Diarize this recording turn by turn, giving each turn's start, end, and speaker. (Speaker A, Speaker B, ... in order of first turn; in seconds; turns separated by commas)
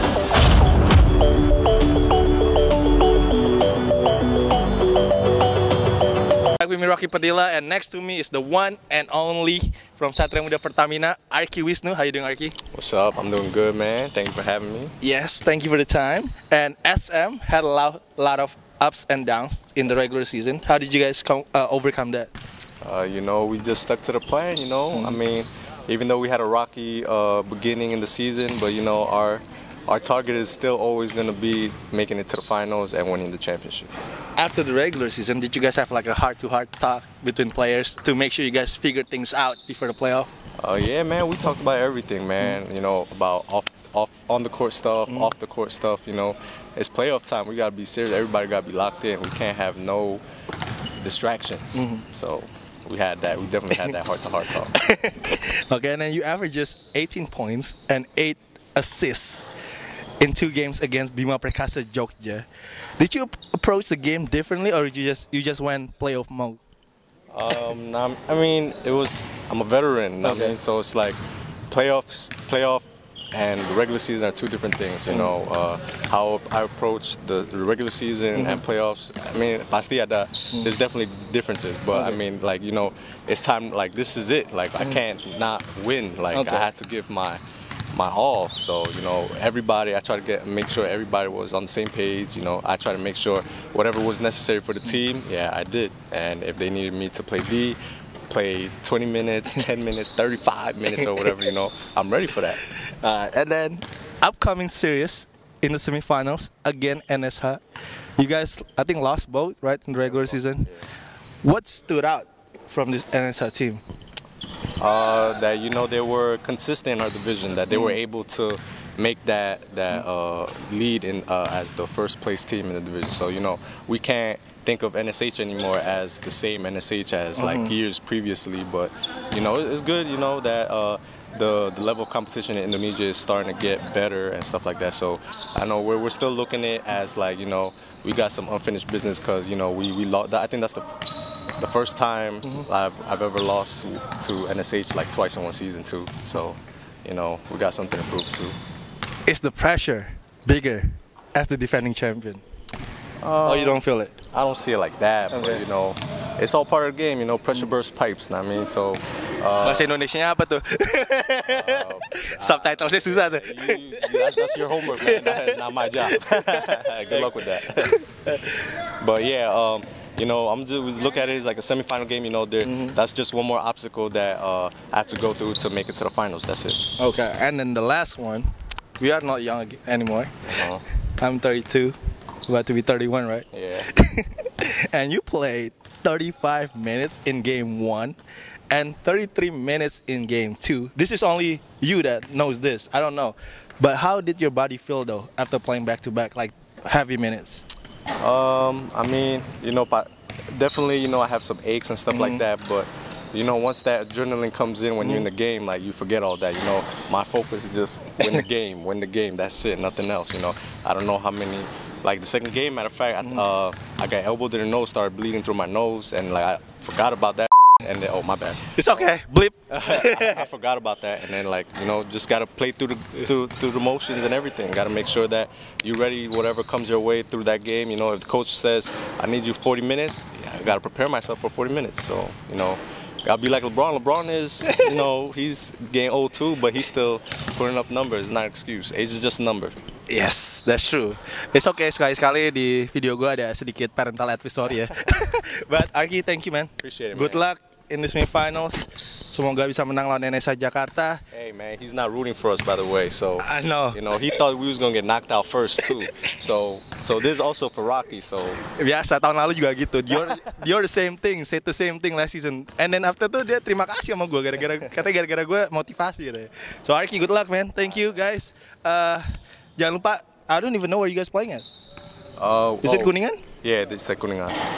Speaker A: 6.6-12.6, Speaker B: 12.7-14.9, Speaker A: 15.0-22.3, Speaker B: 22.8-33.9, Speaker A: 24.9-25.2, Speaker A: 34.4-40.4, Speaker B: 40.6-50.2, Speaker A: 45.1-45.3, Speaker B: 51.0-54.8, Speaker A: 51.8-52.0, Speaker A: 54.7-59.5, Speaker A: 60.2-62.5, Speaker A: 63.0-66.6, Speaker B: 67.3-102.6, Speaker A: 70.2-70.6, Speaker A: 78.4-78.6, Speaker A: 81.9-82.2, Speaker A: 86.3-86.7, Speaker A: 102.7-107.6, Speaker A: 108.2-110.7, Speaker A: 111.4-113.8, Speaker B: 114.8-148.6, Speaker A: 117.7-118.0, Speaker A: 127.4-127.8, Speaker A: 149.2-152.4, Speaker B: 153.2-153.8, Speaker A: 153.4-154.2, Speaker B: 154.3-159.9, Speaker A: 155.3-155.6, Speaker A: 159.6-168.6, Speaker B: 161.5-176.9, Speaker A: 172.7-173.0, Speaker A: 177.0-178.5, Speaker A: 179.0-180.6, Speaker B: 180.5-180.8, Speaker A: 181.2-182.0, Speaker A: 182.5-188.2, Speaker B: 183.5-183.9, Speaker A: 188.7-197.7, Speaker B: 198.2-218.8, Speaker A: 202.1-202.4, Speaker A: 205.0-205.3, Speaker A: 218.7-220.4, Speaker B: 219.7-239.8, Speaker A: 240.1-251.2, Speaker B: 246.8-247.4, Speaker B: 251.3-258.6, Speaker A: 253.4-254.3, Speaker A: 255.9-256.4, Speaker A: 258.8-269.2, Speaker A: 269.8-271.6, Speaker B: 272.4-274.6, Speaker A: 272.8-273.4